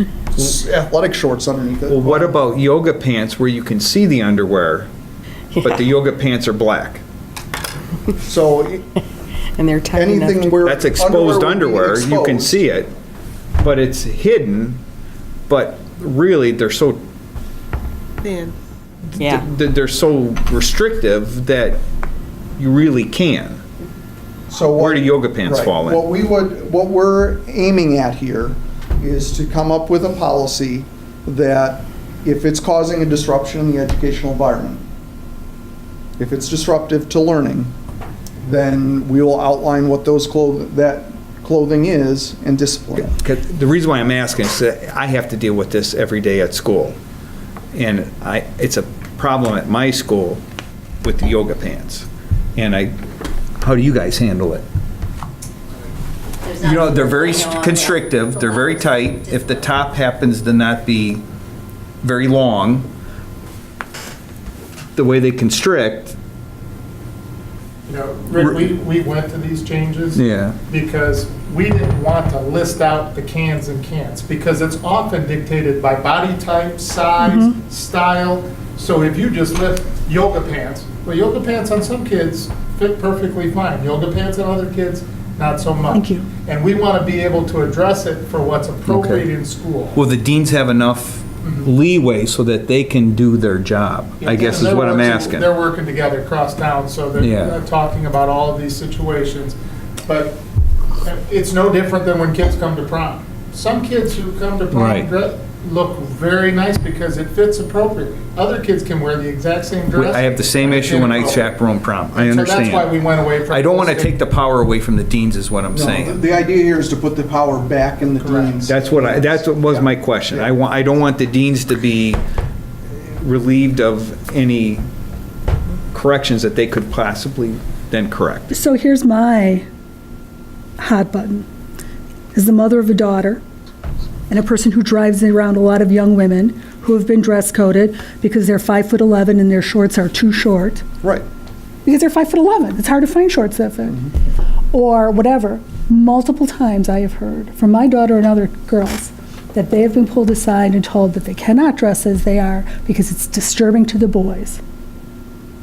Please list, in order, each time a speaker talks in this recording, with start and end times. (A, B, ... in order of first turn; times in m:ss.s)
0:00.4-0:02.4 A
0:01.9-0:04.9 B
0:05.6-0:07.0 B
0:08.3-0:08.9 A
0:09.6-0:10.7 C
0:09.9-0:12.8 A
0:10.6-0:12.9 B
0:13.6-0:14.8 B
0:15.5-0:17.0 B
0:18.2-0:18.5 C
0:19.1-0:21.8 B
0:19.2-0:19.5 C
0:22.6-0:23.6 B
0:24.5-0:34.8 A
0:24.8-0:26.0 B
0:36.2-0:37.7 A
0:38.4-0:43.1 A
0:43.0-0:47.0 B
0:47.7-0:50.4 B
0:51.0-0:53.0 B
0:53.6-0:54.6 B
0:56.5-0:58.7 C
0:56.6-1:01.2 B
1:02.0-1:02.9 B
1:05.0-1:06.2 B
1:07.9-1:30.0 D
1:08.4-1:08.7 B
1:10.2-1:10.6 B
1:17.2-1:17.6 E
1:25.9-1:26.3 E
1:28.9-1:29.3 B
1:30.0-1:35.5 B
1:34.2-1:40.4 D
1:37.2-1:37.6 B
1:41.0-1:51.6 D
1:44.7-1:45.1 B
1:49.9-1:53.0 B
1:52.1-1:54.2 D
1:53.5-1:56.2 B
1:55.7-2:00.6 A
1:58.2-1:58.6 D
1:58.7-2:02.2 B
2:02.9-2:04.9 B
2:05.9-2:08.5 B
2:08.5-2:09.6 E
2:10.8-2:11.5 E
2:12.3-2:13.4 E
2:14.3-2:20.8 E
2:21.8-2:24.1 E
2:24.7-2:34.6 E